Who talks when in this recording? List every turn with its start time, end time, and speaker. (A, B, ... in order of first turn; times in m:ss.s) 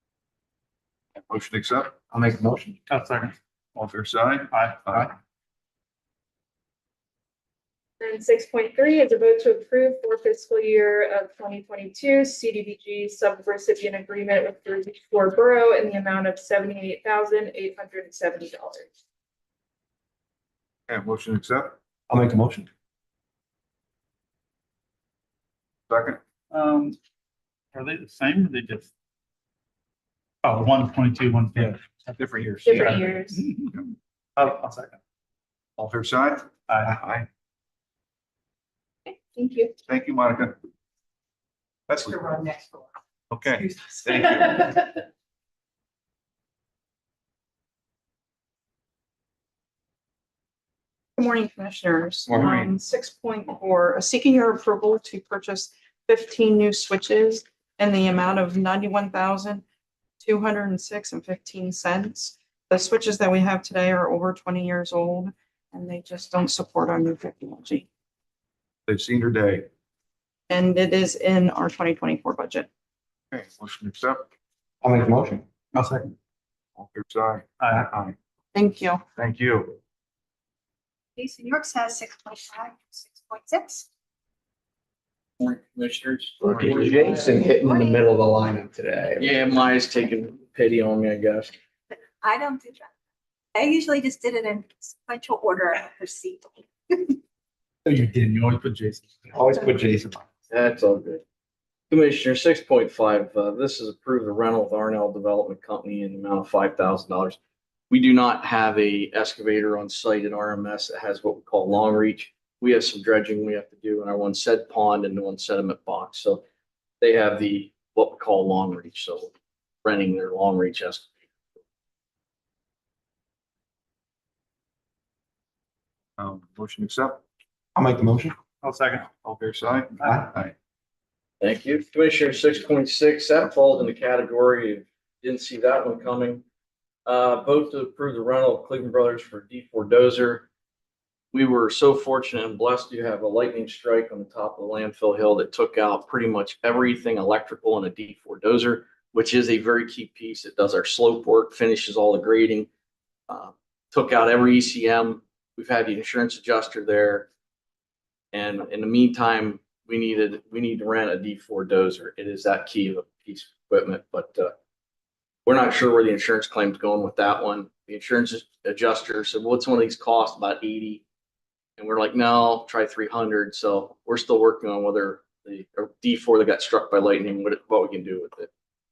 0:01.2-0:01.9 A
0:02.1-0:02.8 B
0:02.9-0:03.9 C
0:03.8-0:05.1 A
0:04.5-0:05.0 C
0:08.0-0:18.9 D
0:20.9-0:21.8 A
0:22.1-0:22.7 B
0:25.9-0:26.2 A
0:26.5-0:27.0 C
0:27.7-0:28.9 C
0:30.4-0:32.2 C
0:31.6-0:33.0 B
0:32.6-0:33.4 D
0:32.7-0:33.7 C
0:34.4-0:35.0 C
0:35.8-0:37.3 A
0:36.7-0:37.0 C
0:39.1-0:39.7 D
0:39.9-0:40.6 A
0:41.9-0:42.4 A
0:43.3-0:44.8 A
0:51.2-0:59.6 E
0:52.3-0:52.7 B
0:52.4-0:52.7 A
1:00.2-1:07.9 E
1:08.9-1:09.7 A
1:10.5-1:12.7 E
1:13.3-1:14.3 A
1:14.8-1:15.5 B
1:15.7-1:16.1 C
1:16.8-1:18.2 A
1:17.6-1:17.9 C
1:18.5-1:19.0 E
1:19.2-1:19.8 A
1:21.2-1:23.9 F
1:25.4-1:27.5 G
1:26.4-1:29.5 B
1:27.5-1:28.0 F
1:29.2-1:31.5 G
1:31.9-1:32.9 F
1:33.6-1:37.1 F
1:37.8-1:39.4 C
1:39.3-1:40.2 B
1:40.5-1:41.2 G
1:41.9-1:47.4 G
1:47.9-1:56.4 G
1:57.0-1:59.3 G
1:59.8-2:01.1 G
2:06.2-2:07.2 A
2:07.8-2:08.4 B
2:08.6-2:09.1 C
2:09.2-2:10.5 A
2:11.4-2:16.4 G
2:17.1-2:20.5 G
2:21.3-2:32.7 G
2:33.3-2:37.3 G
2:38.3-2:44.5 G
2:45.5-2:51.0 G
2:51.8-2:58.5 G